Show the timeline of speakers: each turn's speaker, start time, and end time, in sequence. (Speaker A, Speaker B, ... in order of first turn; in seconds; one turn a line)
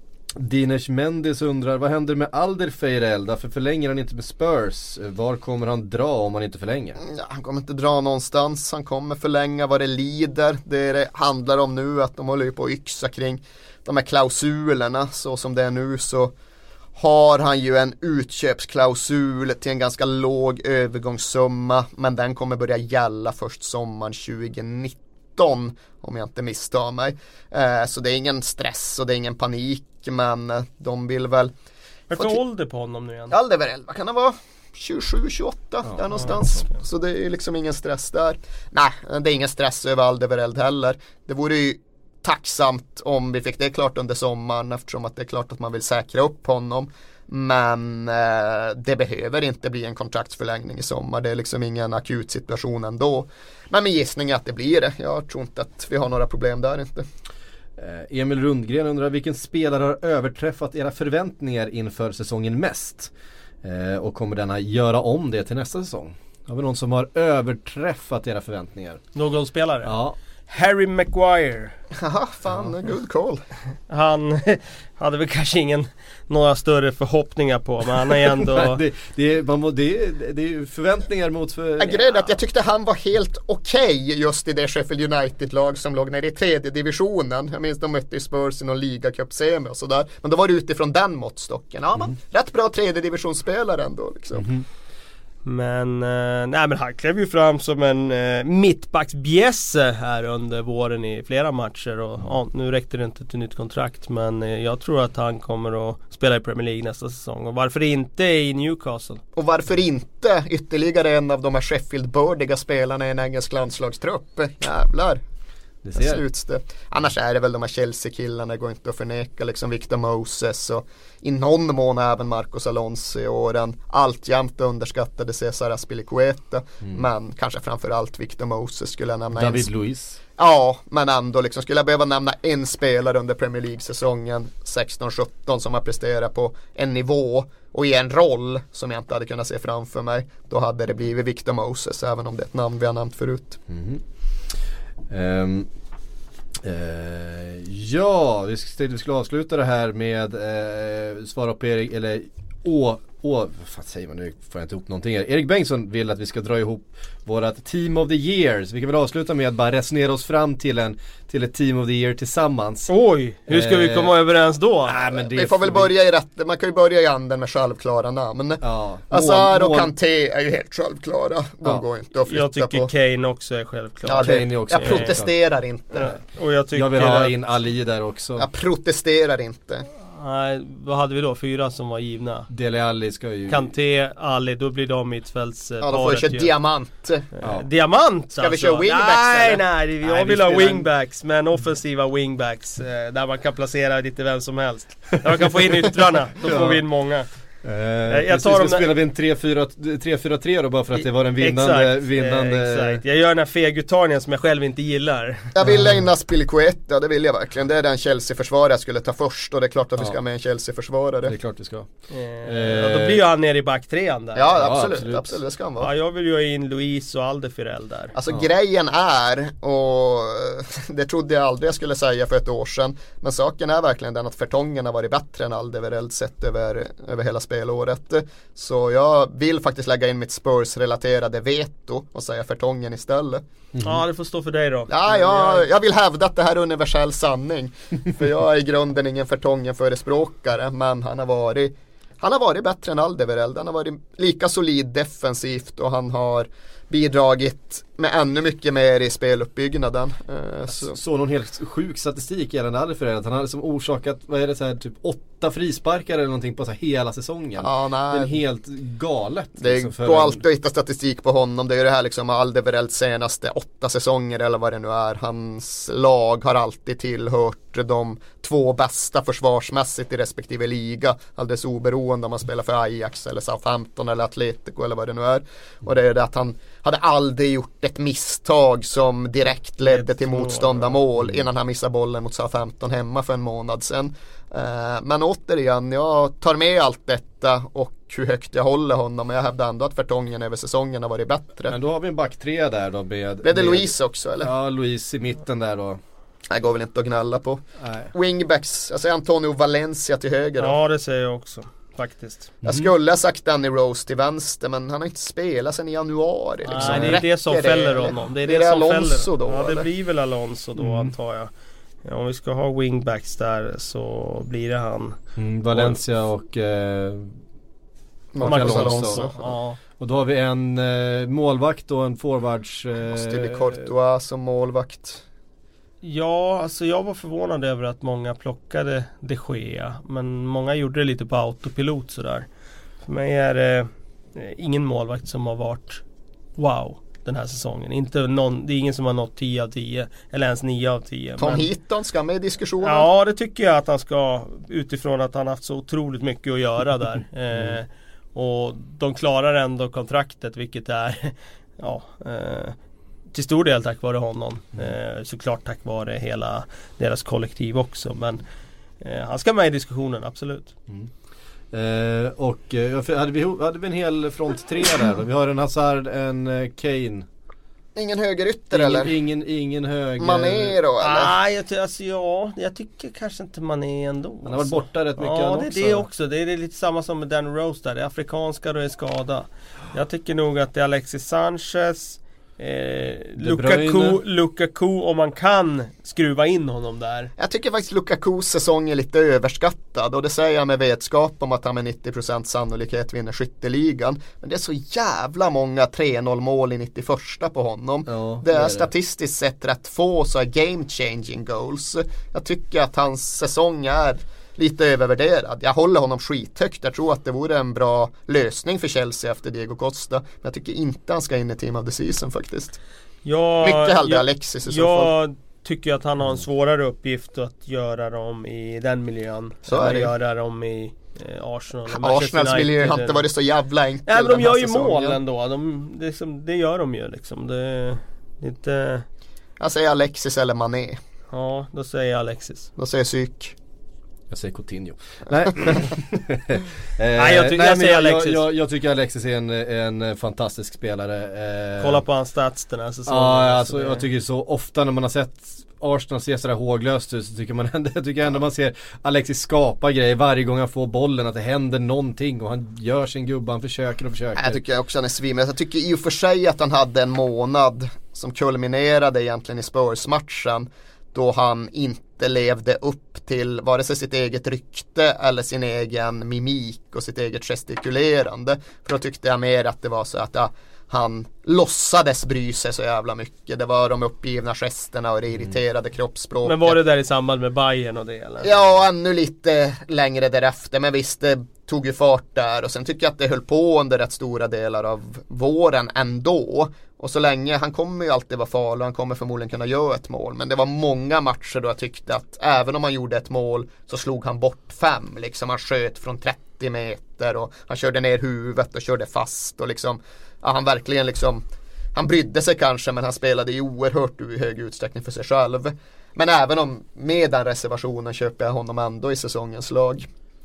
Speaker A: 0.3-7.0
Speaker B: 7.0-16.3
Speaker B: 16.9-31.5
Speaker C: 32.1-33.4
Speaker B: 32.1-32.4
Speaker B: 33.3-57.0
Speaker A: 35.9-36.4
Speaker A: 57.8-63.1
Speaker A: 63.6-69.0
Speaker C: 69.1-69.9
Speaker A: 69.8-70.2
Speaker C: 70.5-71.7
Speaker B: 71.9-73.4
Speaker C: 73.9-78.8
Speaker A: 78.3-82.0
Speaker B: 81.8-94.5
Speaker A: 94.3-94.6
Speaker C: 95.4-109.2
Speaker B: 109.3-115.2
Speaker A: 115.8-116.2
Speaker B: 115.9-129.7
Speaker A: 129.3-130.2
Speaker B: 130.4-143.6
Speaker A: 143.7-144.0
Speaker A: 145.1-145.7
Speaker A: 146.6-162.9
Speaker C: 162.9-164.9
Speaker A: 163.5-164.1
Speaker A: 164.8-165.9
Speaker B: 165.2-172.9
Speaker A: 168.6-169.9
Speaker C: 172.3-175.1
Speaker B: 174.0-176.2
Speaker A: 174.1-175.3
Speaker C: 175.9-177.3
Speaker A: 176.7-178.5
Speaker B: 178.4-179.9
Speaker C: 180.0-182.5
Speaker A: 182.5-183.7
Speaker C: 183.5-186.5
Speaker B: 185.8-187.3
Speaker C: 187.4-197.3
Speaker B: 188.4-189.6
Speaker A: 190.0-190.8
Speaker A: 196.4-196.8
Speaker A: 197.6-203.0
Speaker C: 198.1-198.9
Speaker C: 200.9-205.5
Speaker B: 205.5-211.3
Speaker A: 205.6-205.9
Speaker A: 211.2-211.9
Speaker C: 212.1-214.6
Speaker A: 212.4-213.2
Speaker B: 214.3-215.9
Speaker A: 214.6-215.3
Speaker C: 215.8-218.1
Speaker B: 218.1-233.4
Speaker A: 233.7-234.0
Speaker C: 233.8-235.6
Speaker B: 234.9-251.0
Speaker A: 250.7-260.4
Speaker B: 257.6-258.4
Speaker B: 259.6-291.8
Speaker C: 279.9-281.0
Speaker A: 291.7-296.0
Speaker B: 293.4-294.5
Speaker B: 296.5-300.8
Speaker A: 297.8-298.1
Speaker C: 300.6-302.5
Speaker B: 302.6-309.9
Speaker A: 302.6-302.9
Speaker C: 306.6-311.5
Speaker A: 306.8-307.2
Speaker A: 310.8-311.1
Speaker C: 312.0-315.2
Speaker A: 315.4-317.3
Speaker C: 315.7-316.0
Speaker B: 318.3-319.5
Speaker A: 318.4-319.3
Speaker C: 318.4-319.8
Speaker A: 320.0-323.9
Speaker B: 323.1-325.2
Speaker C: 326.0-332.5
Speaker C: 333.1-336.0
Speaker C: 336.6-341.7
Speaker B: 341.4-343.1
Speaker C: 342.8-352.8
Speaker C: 353.3-358.4
Speaker C: 359.0-360.7
Speaker A: 361.7-367.2
Speaker B: 367.9-369.1
Speaker A: 368.7-370.8
Speaker B: 370.2-371.3
Speaker C: 371.0-387.3
Speaker A: 374.4-376.1
Speaker A: 383.4-384.2
Speaker B: 387.4-412.8
Speaker A: 398.1-398.9
Speaker C: 413.2-423.2
Speaker B: 413.6-415.1
Speaker B: 419.7-420.1
Speaker B: 421.9-425.2
Speaker C: 424.1-429.0
Speaker B: 429.6-431.0
Speaker C: 431.3-432.7
Speaker B: 432.8-433.5
Speaker A: 434.3-442.0
Speaker C: 437.1-438.4
Speaker C: 441.8-444.0
Speaker A: 443.1-454.6
Speaker B: 454.4-476.8
Speaker C: 476.4-478.6
Speaker B: 478.4-501.4
Speaker B: 501.9-510.1